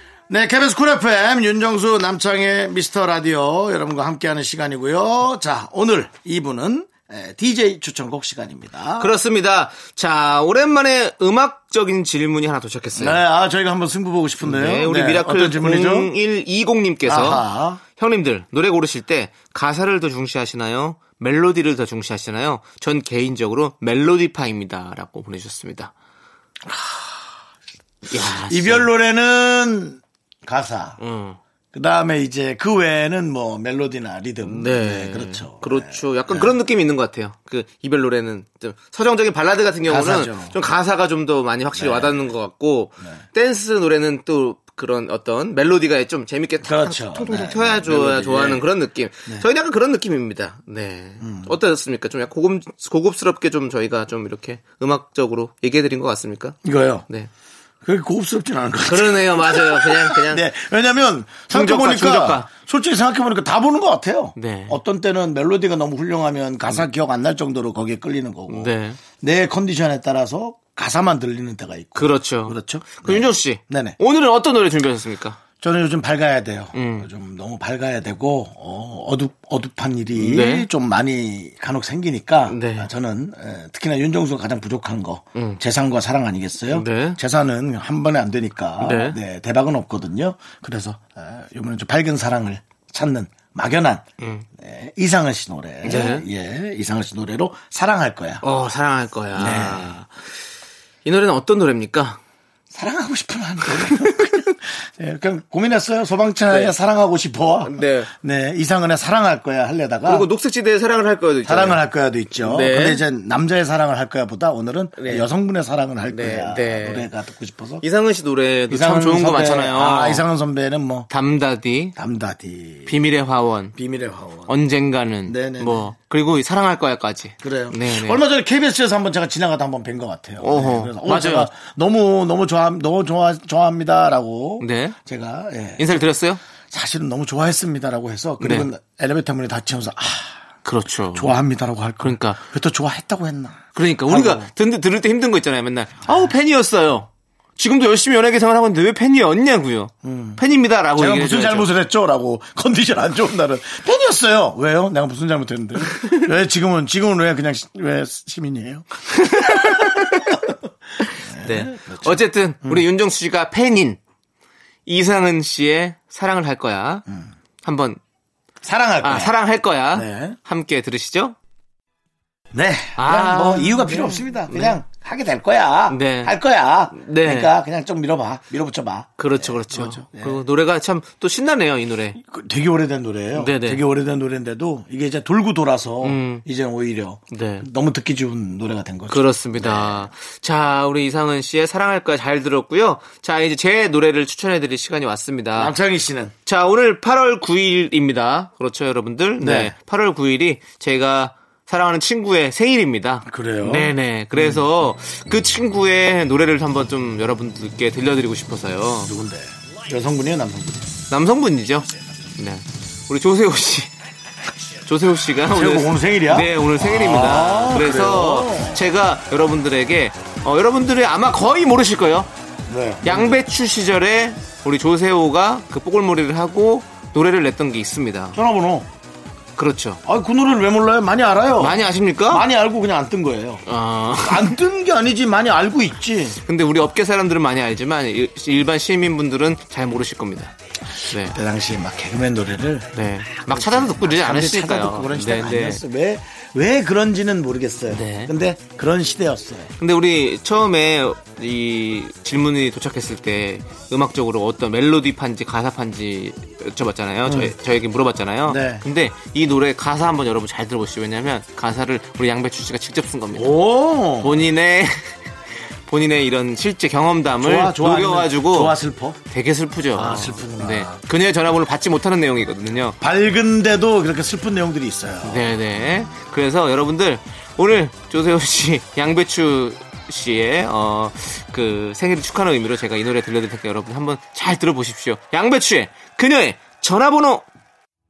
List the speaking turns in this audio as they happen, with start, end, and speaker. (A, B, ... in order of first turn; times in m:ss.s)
0:00.3-0:09.1 A
0:09.0-0:13.2 B
0:13.0-0:16.1 A
0:14.4-0:17.4 B
0:17.0-0:17.8 A
0:18.0-0:25.9 B
0:26.7-0:27.2 A
0:28.1-0:28.9 B
0:28.4-0:31.0 A
0:31.0-0:31.4 B
0:31.7-0:36.5 A
0:34.4-0:57.3 B
0:39.8-0:40.5 A
0:41.7-0:42.3 A
0:46.6-0:48.6 A
0:51.2-0:51.5 A
0:56.6-0:57.0 A
0:57.8-1:14.0 A
0:58.9-1:00.4 B
1:01.5-1:02.5 B
1:04.4-1:04.8 B
1:08.5-1:09.0 B
1:12.0-1:15.4 B
1:15.6-1:34.0 A
1:16.8-1:17.1 B
1:20.2-1:20.7 B
1:22.5-1:22.9 B
1:25.4-1:25.6 B
1:26.7-1:27.2 B
1:28.8-1:29.2 B
1:34.2-1:34.4 B
1:34.6-1:38.4 A
1:35.8-1:36.2 B
1:38.4-1:40.0 B
1:39.4-1:40.0 A
1:41.0-1:42.2 B
1:42.7-1:50.3 A
1:46.5-1:46.7 B
1:47.6-1:48.1 B
1:50.0-1:51.8 B
1:51.4-1:57.8 A
1:52.4-1:53.0 B
1:55.0-1:55.3 B
1:56.1-1:57.1 B
1:57.8-2:00.2 B
1:58.7-2:01.1 A
2:01.1-2:01.9 B
2:02.0-2:02.9 A
2:02.9-2:03.8 B
2:03.8-2:04.5 A
2:04.5-2:08.2 B
2:05.2-2:05.9 A
2:07.4-2:15.9 A
2:10.4-2:11.5 B
2:14.6-2:15.0 B
2:15.8-2:16.4 B
2:16.7-2:20.4 A
2:18.4-2:18.7 B
2:20.6-2:21.4 B
2:21.1-2:24.5 A
2:22.0-2:22.4 B
2:23.8-2:31.7 B
2:30.0-2:30.4 A
2:30.9-2:40.5 A
2:39.2-2:40.4 B
2:41.2-2:42.8 A
2:41.4-2:44.0 B
2:44.9-2:47.0 B
2:47.6-2:48.0 B
2:48.6-2:49.3 A
2:49.0-2:51.4 B
2:49.9-2:50.4 A
2:52.5-3:00.4 A
2:53.0-2:54.8 B
2:55.9-2:56.4 B
2:56.9-2:57.5 B
2:59.2-3:02.2 B
3:02.2-3:10.1 A
3:03.4-3:03.8 B
3:06.0-3:06.4 B
3:07.3-3:07.7 B
3:09.1-3:15.7 B
3:15.5-3:16.3 A
3:16.4-3:29.1 B
3:19.4-3:19.7 A
3:23.2-3:24.6 A
3:29.0-3:30.9 A
3:31.1-3:33.9 B
3:34.9-3:42.3 B
3:35.5-3:38.8 A
3:42.7-3:43.4 A
3:43.0-3:48.4 B
3:48.3-3:48.9 A
3:49.6-3:50.0 B
3:50.0-3:53.6 A
3:51.6-3:52.4 B
3:53.7-3:54.6 B
3:54.2-3:56.4 A
3:56.4-4:00.5 B
4:01.1-4:01.4 B
4:01.1-4:09.7 A
4:02.9-4:05.8 B
4:07.9-4:08.3 B
4:09.8-4:23.6 B
4:17.2-4:17.5 A
4:18.4-4:18.8 A
4:23.3-4:24.5 A
4:24.2-4:25.1 B
4:25.9-4:28.8 B
4:27.4-4:29.2 A
4:29.3-4:33.0 B
4:29.9-4:31.0 A
4:33.0-4:35.6 A
4:35.2-4:47.4 B